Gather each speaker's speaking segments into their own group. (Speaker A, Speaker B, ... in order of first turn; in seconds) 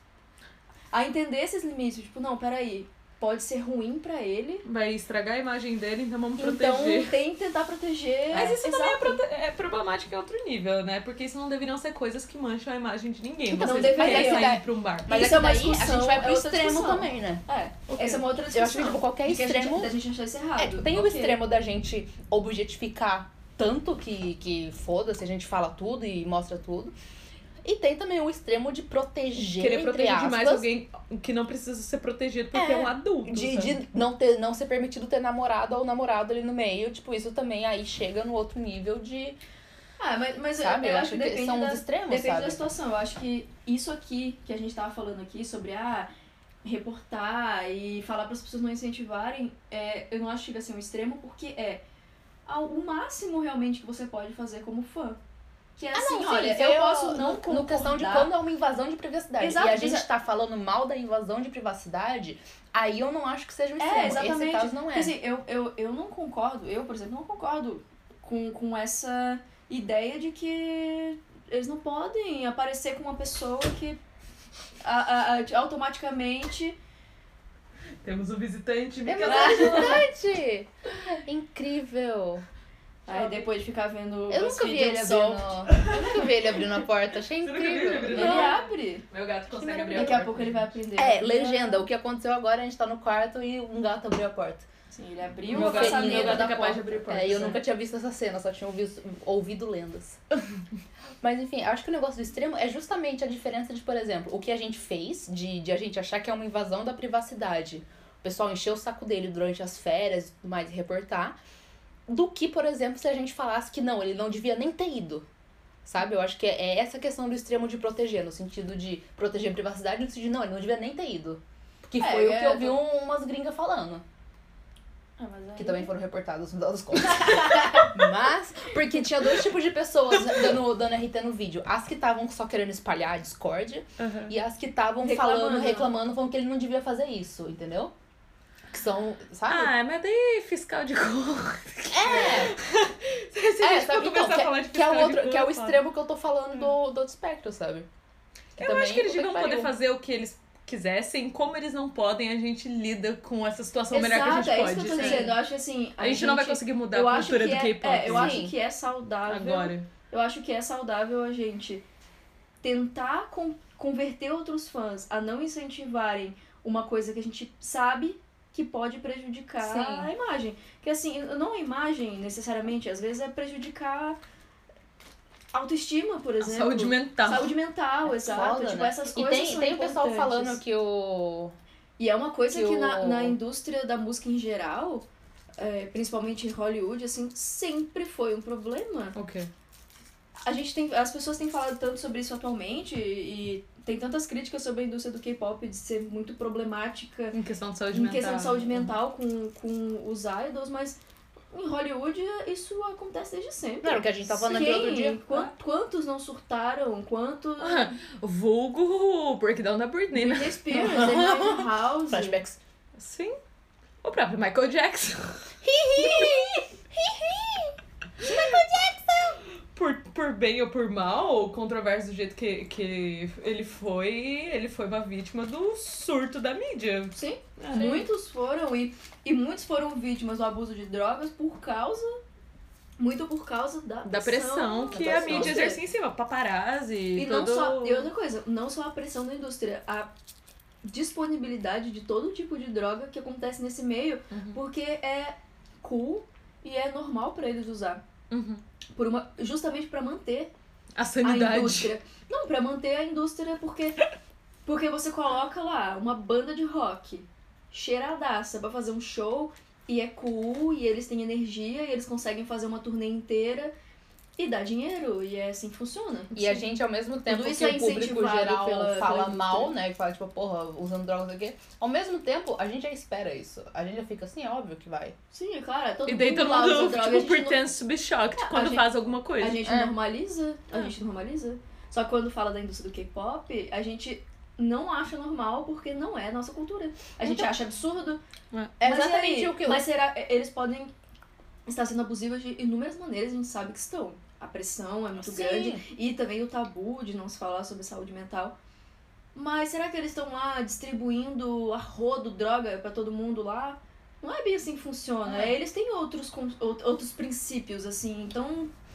Speaker A: 0.9-4.7, 6.4-9.2, 13.6-21.4, 40.0-46.1, 46.6-51.8, 52.5-55.2, 55.8-58.3, 59.4-60.1, 63.8-74.0, 74.8-76.8, 79.2-80.0, 83.1-85.7, 88.1-89.0, 89.8-91.8, 94.9-97.6, 122.0-122.8, 125.2-125.9, 127.2-127.9, 135.0-135.9, 153.9-161.8, 162.6-174.2, 175.5-180.6, 182.0-185.1, 185.6-189.2, 190.4-197.4, 197.9-201.0, 201.5-208.0, 210.1-212.4, 227.2-232.2, 233.0-235.8, 237.2-240.1, 240.8-248.0, 248.9-250.5, 251.2-254.0, 254.7-263.7, 264.4-266.6, 267.3-269.7, 275.3-277.6, 278.4-288.2, 288.8-290.9, 291.7-298.6, 299.4-308.7
Speaker B: 4.7-7.2, 8.3-15.1, 17.9-18.2, 29.5-33.8, 78.0-80.1, 85.7-86.3, 87.4-90.6, 95.5-97.6, 134.0-134.3, 139.5-145.8, 148.6-155.4, 156.0-158.4, 159.3-159.9, 176.4-177.5, 189.2-189.5, 197.3-198.9, 207.6-210.6, 213.0-213.4, 214.0-216.4, 219.7-228.1, 234.0-238.1, 244.3-244.6, 248.3-248.6, 251.0-251.9, 276.1-279.6
Speaker C: 13.5-17.4, 18.5-19.9, 20.6-26.9, 27.6-30.7, 32.5-39.4, 40.6-42.7, 55.9-65.2, 79.0-82.5, 84.3-88.6, 89.5-90.4, 91.0-94.7, 95.5-100.2, 101.2-111.4, 112.1-115.3, 115.8-124.0, 125.6-137.9, 138.7-139.7, 141.9-142.6, 143.6-147.9, 148.6-149.7, 154.9-155.4, 158.1-158.5, 169.6-170.1, 178.1-181.6, 182.5-183.4, 203.8-205.2, 210.7-212.6, 215.6-219.4, 234.9-235.7, 266.3-275.2, 279.6-279.9, 287.2-287.5, 288.8-289.9, 295.1-295.8, 305.3-305.6